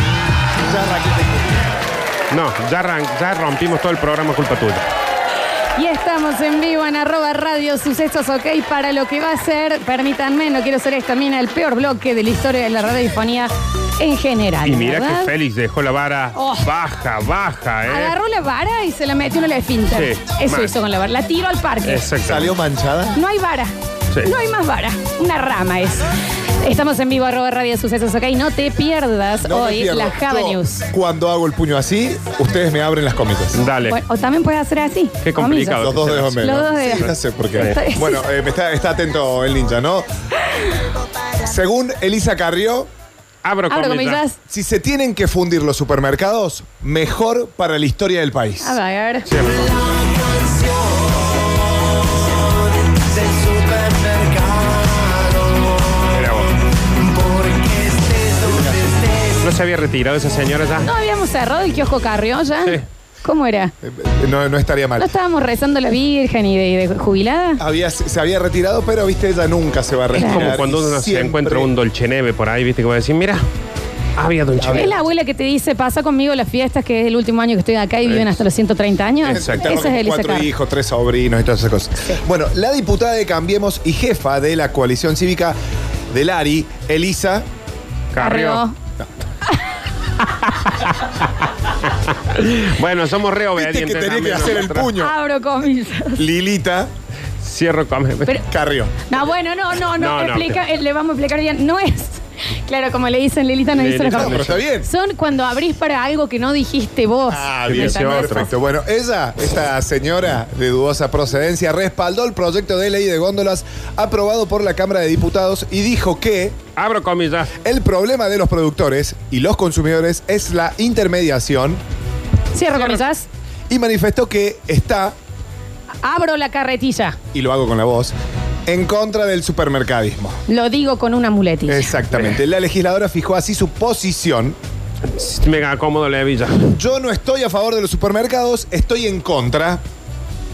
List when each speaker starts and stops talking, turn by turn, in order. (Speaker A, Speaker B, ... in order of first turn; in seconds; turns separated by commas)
Speaker A: 0.6-1.6, Speaker B: 2.3-4.8, Speaker C: 5.8-15.3, Speaker B: 14.7-18.2, Speaker C: 16.4-16.7, Speaker C: 17.9-22.1, Speaker B: 19.9-20.7, Speaker B: 21.8-22.5, Speaker A: 22.2-23.2, Speaker C: 23.1-26.1, Speaker C: 26.6-30.8, Speaker A: 29.4-33.6, Speaker B: 33.5-34.0, Speaker C: 33.8-38.2, Speaker B: 35.2-37.0, Speaker A: 35.8-40.1, Speaker A: 41.4-42.9, Speaker B: 43.4-44.2, Speaker C: 43.7-44.4, Speaker A: 44.5-48.8, Speaker C: 48.6-49.3, Speaker B: 49.3-49.9, Speaker D: 50.4-50.8, Speaker D: 52.9-55.7, Speaker B: 56.1-56.5, Speaker D: 57.0-58.3, Speaker A: 58.3-59.0, Speaker B: 59.4-60.9, Speaker C: 60.8-63.7, Speaker A: 63.8-65.1, Speaker C: 65.0-67.6, Speaker A: 67.6-71.7, Speaker B: 70.1-73.4, Speaker C: 70.2-70.5, Speaker B: 74.2-74.9, Speaker A: 74.6-75.0, Speaker C: 74.7-80.5, Speaker B: 78.1-78.4, Speaker B: 79.2-79.8, Speaker A: 79.3-85.6, Speaker A: 86.1-87.5, Speaker B: 88.1-88.7, Speaker C: 88.2-88.8, Speaker B: 90.2-94.9, Speaker A: 93.5-95.1, Speaker C: 95.0-96.2, Speaker A: 96.2-96.9, Speaker B: 97.4-98.4, Speaker A: 98.5-98.9, Speaker C: 99.1-108.5, Speaker B: 100.0-100.6, Speaker B: 103.7-104.6, Speaker A: 104.1-104.9, Speaker A: 107.3-116.6, Speaker B: 107.7-108.5, Speaker B: 116.8-117.5, Speaker A: 117.6-121.8, Speaker C: 122.5-123.3, Speaker A: 123.7-125.2, Speaker C: 126.0-127.2, Speaker A: 127.3-128.1, Speaker A: 128.7-130.4, Speaker C: 130.5-132.0, Speaker A: 131.7-134.6, Speaker B: 135.1-136.7, Speaker A: 136.7-139.8